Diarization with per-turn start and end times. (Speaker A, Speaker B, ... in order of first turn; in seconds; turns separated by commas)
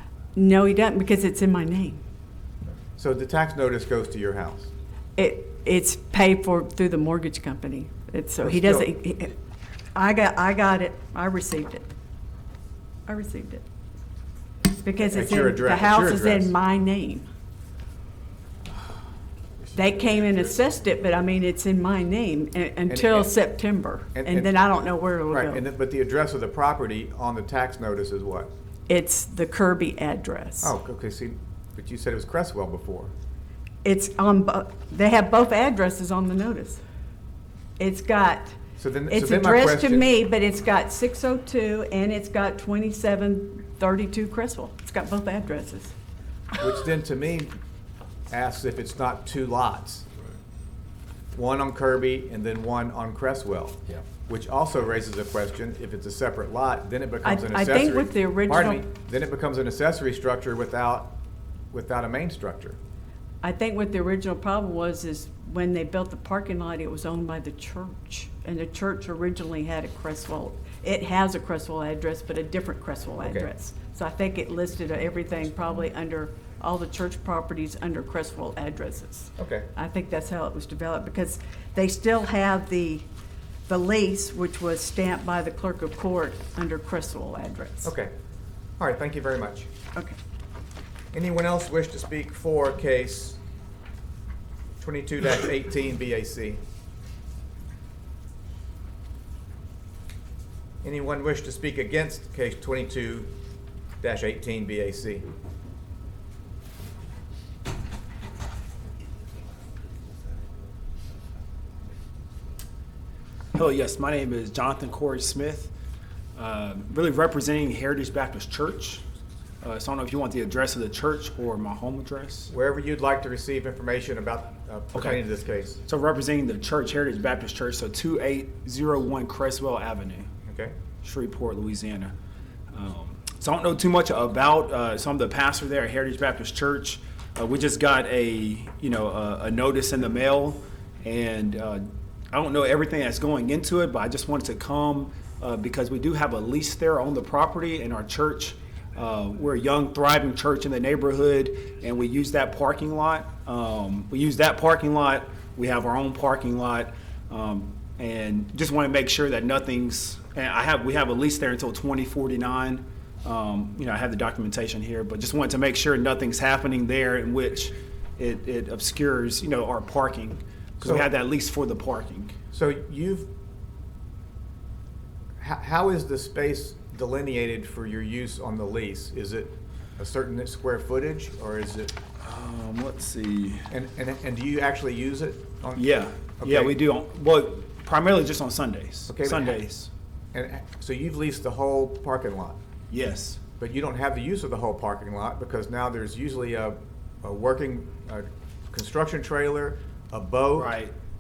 Speaker A: 0.3-2.0, Speaker B: 3.0-4.7, Speaker A: 5.2-9.4, Speaker B: 8.4-8.9, Speaker A: 9.9-11.9, Speaker A: 13.1-13.6, Speaker A: 14.7-17.3, Speaker B: 15.1-16.6, Speaker A: 19.7-25.6, Speaker B: 22.9-23.3, Speaker B: 24.1-24.5, Speaker B: 25.3-28.5, Speaker A: 28.9-30.7, Speaker B: 30.6-33.1, Speaker A: 33.8-36.8, Speaker A: 37.8-46.0, Speaker B: 38.8-40.1, Speaker B: 46.6-47.5, Speaker B: 48.3-50.1, Speaker B: 51.3-61.2, Speaker A: 57.2-58.8, Speaker B: 61.7-62.8, Speaker A: 63.4-83.1, Speaker B: 73.2-73.5, Speaker B: 79.4-79.7, Speaker A: 83.7-87.9, Speaker B: 87.8-88.1, Speaker B: 88.8-89.7, Speaker B: 91.1-93.4, Speaker B: 94.8-96.6, Speaker B: 100.8-103.3, Speaker B: 104.0-105.3, Speaker C: 113.5-115.7, Speaker C: 116.4-119.0, Speaker C: 119.6-122.5, Speaker B: 122.5-125.8, Speaker C: 124.9-125.2, Speaker C: 125.8-130.3, Speaker B: 130.5-130.8, Speaker C: 131.0-132.1, Speaker C: 132.7-172.3, Speaker B: 170.8-171.1, Speaker B: 172.5-173.3, Speaker B: 175.4-181.9, Speaker C: 182.2-183.7, Speaker B: 183.7-185.8, Speaker C: 185.8-189.9, Speaker B: 186.4-186.8, Speaker B: 189.1-189.6, Speaker B: 190.3-192.6, Speaker C: 192.9-193.4, Speaker B: 193.6-200.8, Speaker C: 200.6-200.9